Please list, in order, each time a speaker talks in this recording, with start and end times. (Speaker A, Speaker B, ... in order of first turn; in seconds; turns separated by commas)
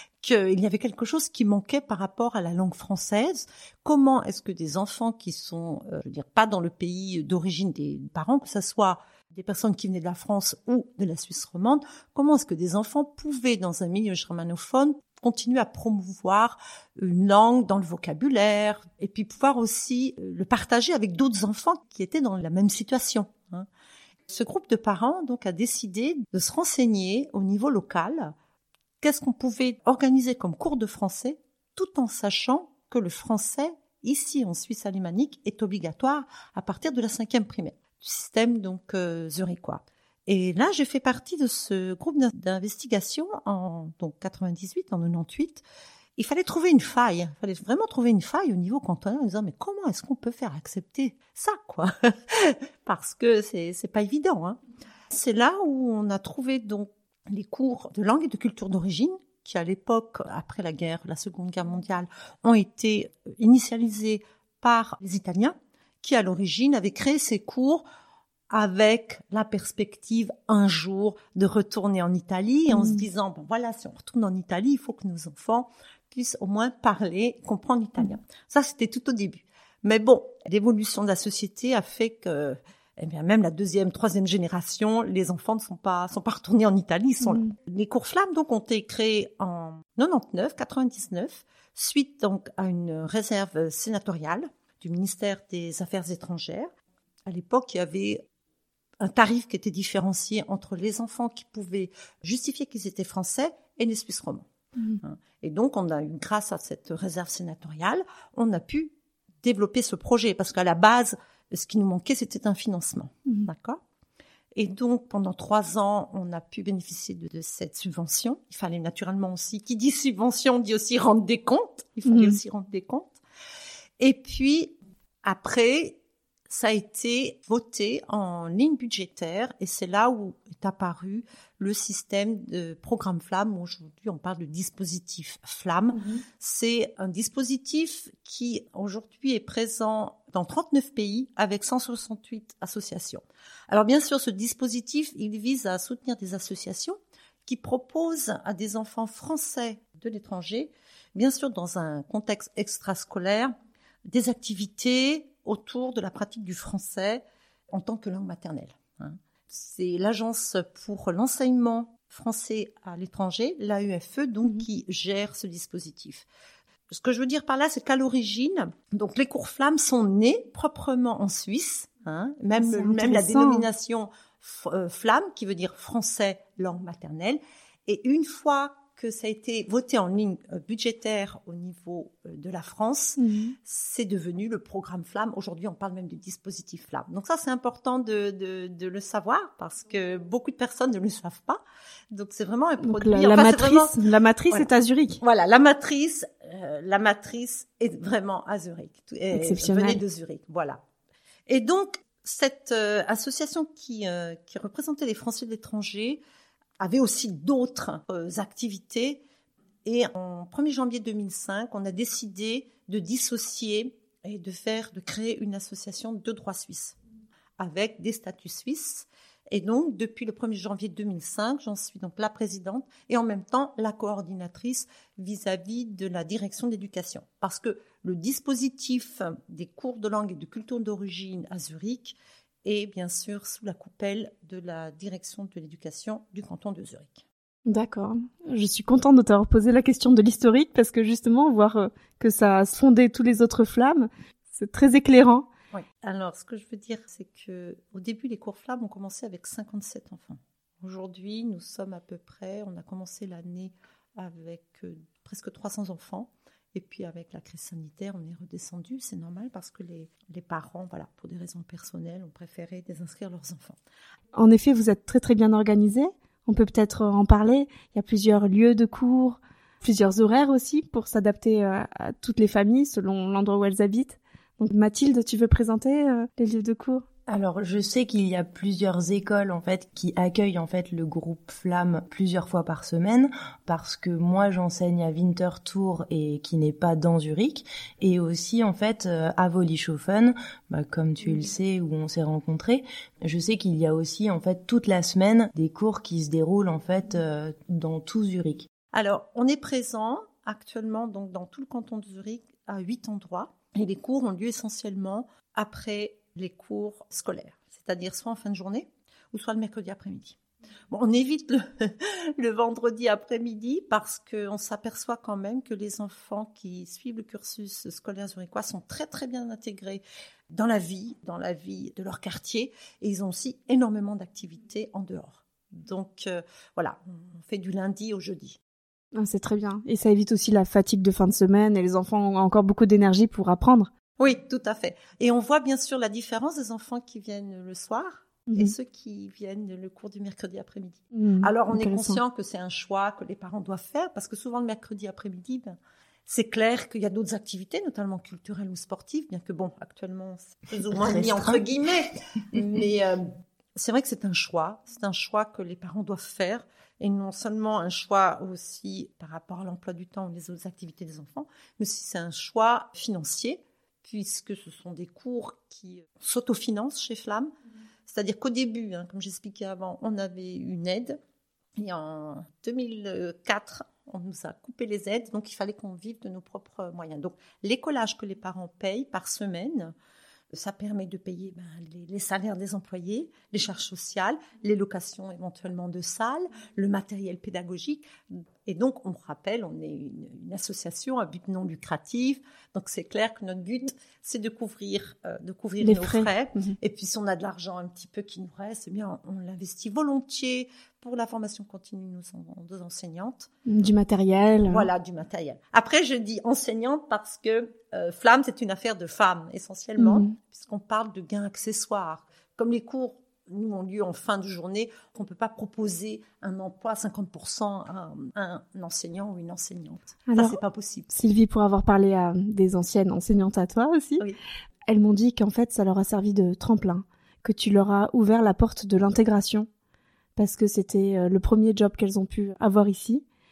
Speaker A: 0.2-23.7, Speaker A: 24.3-28.3, Speaker A: 29.0-45.6, Speaker A: 46.2-54.6, Speaker A: 55.1-67.8, Speaker A: 68.5-96.7, Speaker B: 72.7-73.0, Speaker A: 97.2-98.2, Speaker A: 99.0-104.5, Speaker A: 105.0-113.8, Speaker A: 114.5-123.2, Speaker B: 122.0-122.4, Speaker A: 124.0-153.5, Speaker B: 135.9-136.2, Speaker A: 154.1-166.3, Speaker A: 166.9-194.0, Speaker B: 172.6-173.7, Speaker B: 183.2-183.6, Speaker B: 192.8-195.2, Speaker A: 195.2-200.8, Speaker B: 199.3-200.0, Speaker A: 201.5-206.2, Speaker A: 206.8-209.2, Speaker A: 209.8-217.0, Speaker A: 217.6-237.2, Speaker B: 237.7-245.5, Speaker A: 245.7-263.8, Speaker B: 264.3-277.0, Speaker C: 277.3-298.7, Speaker A: 298.9-310.4, Speaker A: 310.9-328.6, Speaker B: 329.1-333.9, Speaker A: 334.2-345.8, Speaker B: 338.5-338.7, Speaker B: 341.1-342.2, Speaker A: 346.3-367.5, Speaker C: 351.0-351.6, Speaker A: 368.1-371.2, Speaker A: 371.8-379.9, Speaker A: 380.5-403.5, Speaker B: 395.8-396.7, Speaker B: 403.6-404.9, Speaker A: 404.7-421.1, Speaker B: 410.0-410.4, Speaker B: 420.3-420.6, Speaker B: 421.1-424.2, Speaker B: 424.9-429.7, Speaker B: 430.4-433.2